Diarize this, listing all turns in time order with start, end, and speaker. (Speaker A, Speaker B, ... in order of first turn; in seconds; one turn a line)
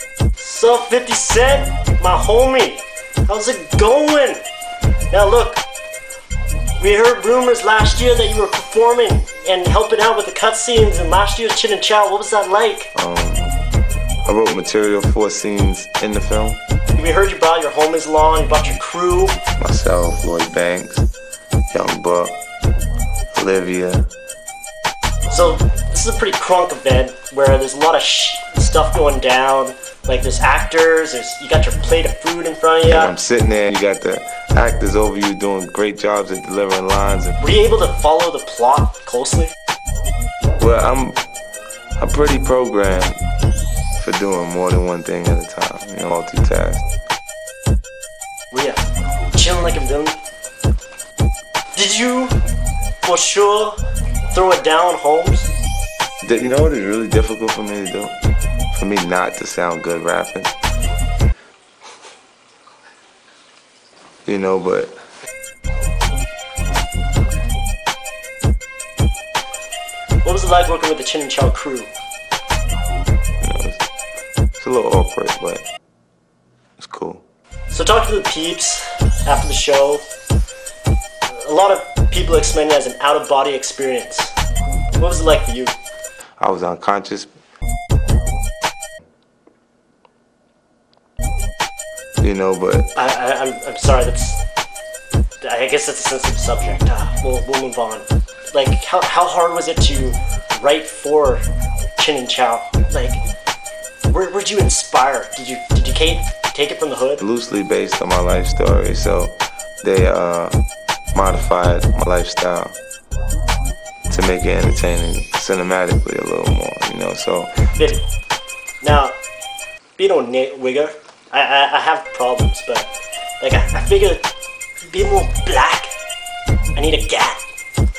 Speaker A: 0.4-4.4
Speaker A: 5.1-5.6
Speaker A: 6.8-12.9
Speaker B: 12.9-13.5
Speaker B: 14.3-16.6
Speaker A: 17.0-19.4
Speaker B: 19.6-21.1
Speaker B: 21.7-22.4
Speaker B: 23.3-24.1
Speaker A: 25.3-33.1
Speaker B: 32.9-37.4
Speaker A: 37.4-39.5
Speaker B: 40.6-41.2
Speaker B: 42.0-43.2
Speaker B: 44.0-46.9
Speaker A: 48.5-48.8
Speaker A: 49.3-50.2
Speaker A: 51.7-52.4
Speaker A: 53.0-53.8
Speaker A: 54.3-55.5
Speaker B: 56.2-58.1
Speaker B: 58.7-60.5
Speaker B: 64.3-65.0
Speaker A: 70.2-71.9
Speaker B: 73.4-73.8
Speaker B: 74.6-75.7
Speaker B: 76.8-77.2
Speaker A: 77.7-80.0
Speaker A: 81.3-84.3
Speaker A: 85.0-85.8
Speaker B: 86.4-87.3
Speaker B: 92.2-92.9
Speaker A: 93.0-94.4
Speaker A: 95.4-101.4
Speaker A: 102.0-103.2
Speaker A: 104.1-107.2
Speaker B: 107.2-110.6
Speaker B: 111.1-112.8
Speaker B: 114.1-117.7
Speaker A: 117.8-118.0
Speaker A: 118.8-119.2
Speaker A: 120.0-122.9
Speaker A: 123.4-124.3
Speaker A: 124.8-125.9
Speaker A: 126.8-127.4